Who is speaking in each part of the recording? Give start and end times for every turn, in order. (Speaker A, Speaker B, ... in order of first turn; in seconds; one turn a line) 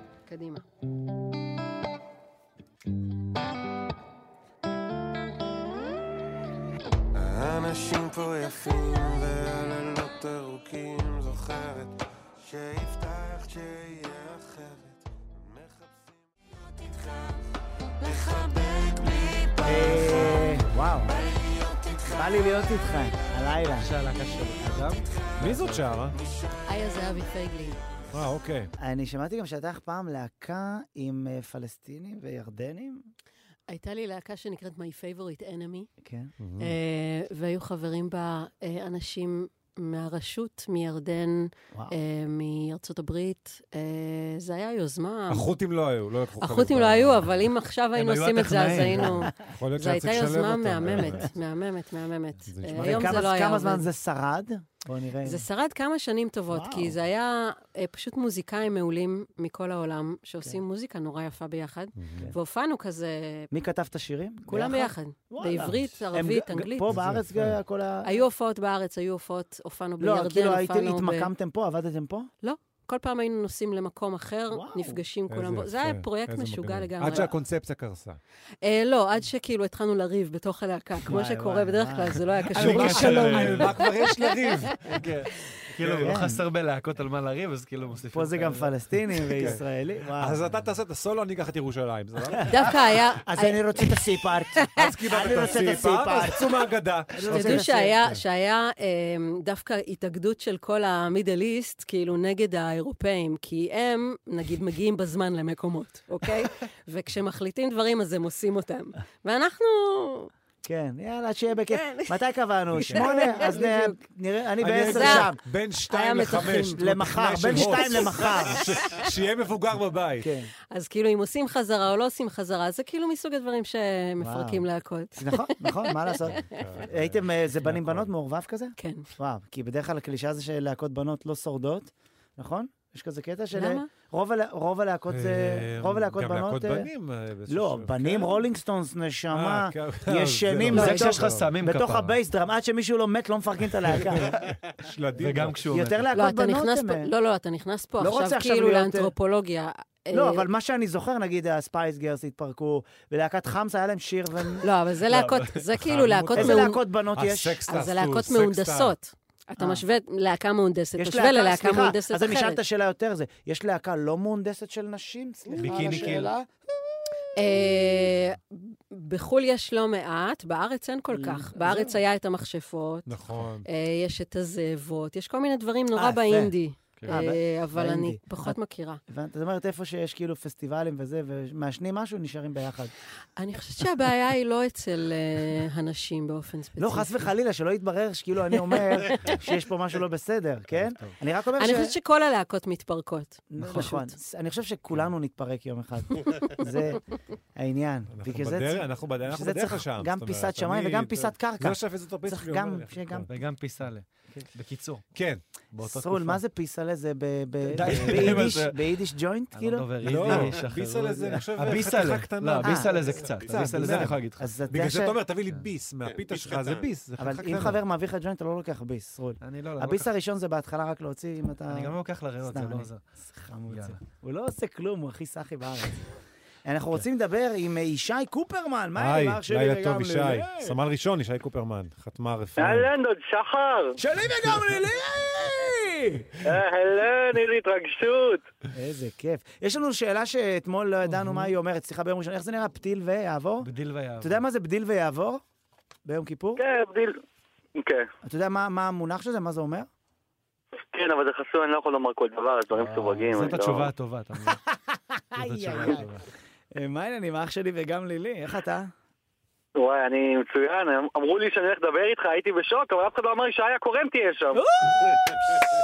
Speaker A: 0.3-0.6
Speaker B: 7.3-11.9
Speaker B: 12.5-14.8
Speaker C: 19.6-21.2
Speaker C: 22.0-23.9
Speaker D: 23.8-25.8
Speaker E: 25.4-26.2
Speaker A: 26.7-27.8
Speaker E: 28.1-28.7
Speaker C: 28.8-33.1
Speaker A: 33.7-35.9
Speaker C: 36.0-36.3
Speaker E: 36.4-36.7
Speaker A: 36.6-45.5
Speaker E: 45.3-47.3
Speaker A: 46.4-53.9
Speaker D: 48.0-49.3
Speaker E: 49.5-51.3
Speaker E: 52.5-53.3
Speaker C: 52.8-55.4
Speaker A: 55.2-63.5
Speaker C: 56.5-56.9
Speaker E: 62.0-62.3
Speaker C: 63.5-68.2
Speaker A: 64.5-66.9
Speaker E: 66.9-67.6
Speaker A: 68.0-71.3
Speaker C: 70.0-72.3
Speaker A: 72.4-77.3
Speaker C: 74.5-75.0
Speaker E: 75.3-78.2
Speaker A: 78.6-84.7
Speaker C: 81.0-83.7
Speaker E: 82.5-85.1
Speaker D: 82.9-83.7
Speaker D: 84.9-89.5
Speaker E: 85.8-86.2
Speaker C: 86.0-86.4
Speaker C: 88.1-90.4
Speaker E: 89.3-89.6
Speaker E: 90.1-92.7
Speaker A: 92.4-94.0
Speaker C: 93.2-96.6
Speaker E: 94.8-98.2
Speaker C: 97.1-97.9
Speaker A: 97.3-110.3
Speaker C: 110.6-115.4
Speaker A: 111.7-112.2
Speaker A: 112.7-114.0
Speaker E: 114.6-120.3
Speaker A: 114.8-115.3
Speaker A: 115.9-116.8
Speaker C: 116.8-118.7
Speaker A: 117.6-119.1
Speaker C: 120.2-120.5
Speaker A: 120.7-126.8
Speaker C: 124.2-136.9
Speaker E: 126.3-128.1
Speaker A: 128.8-129.1
Speaker A: 133.5-133.9
Speaker E: 135.1-138.4
Speaker C: 137.5-144.3
Speaker E: 139.3-141.5
Speaker D: 140.7-142.2
Speaker A: 140.8-141.1
Speaker E: 143.9-145.6
Speaker D: 145.2-146.1
Speaker C: 145.7-147.1
Speaker A: 146.1-150.4
Speaker C: 148.0-149.1
Speaker C: 150.1-154.7
Speaker A: 154.6-156.8
Speaker E: 155.1-158.9
Speaker C: 156.3-157.6
Speaker A: 157.7-162.6
Speaker C: 159.6-159.8
Speaker C: 161.0-166.5
Speaker D: 165.6-166.3
Speaker A: 167.4-179.0
Speaker C: 171.1-172.0
Speaker E: 173.1-173.7
Speaker C: 175.9-182.9
Speaker A: 183.4-187.3
Speaker C: 186.8-191.9
Speaker A: 191.6-194.1
Speaker C: 193.5-197.0
Speaker C: 197.6-203.3
Speaker E: 198.1-203.3
Speaker D: 203.3-205.0
Speaker E: 205.1-205.4
Speaker D: 205.7-206.4
Speaker C: 205.8-210.4
Speaker D: 207.7-208.8
Speaker E: 208.0-208.5
Speaker D: 209.5-214.5
Speaker E: 210.0-217.8
Speaker C: 212.6-212.9
Speaker B: 213.4-213.6
Speaker C: 214.4-215.2
Speaker B: 216.1-216.8
Speaker C: 217.2-226.1
Speaker D: 219.4-220.1
Speaker D: 221.7-223.0
Speaker D: 223.7-224.0
Speaker C: 226.6-230.8
Speaker E: 228.9-232.9
Speaker F: 232.6-234.0
Speaker C: 234.0-236.4
Speaker F: 236.4-238.4
Speaker C: 238.7-243.7
Speaker D: 241.1-241.5
Speaker D: 243.6-244.4
Speaker C: 244.2-245.4
Speaker C: 246.1-246.6
Speaker F: 246.6-247.2
Speaker F: 247.8-248.1
Speaker C: 248.2-249.9
Speaker F: 250.9-253.9
Speaker D: 252.7-254.6
Speaker C: 254.7-256.1
Speaker D: 255.4-256.2
Speaker C: 256.7-258.9
Speaker F: 259.8-264.6
Speaker C: 264.5-265.3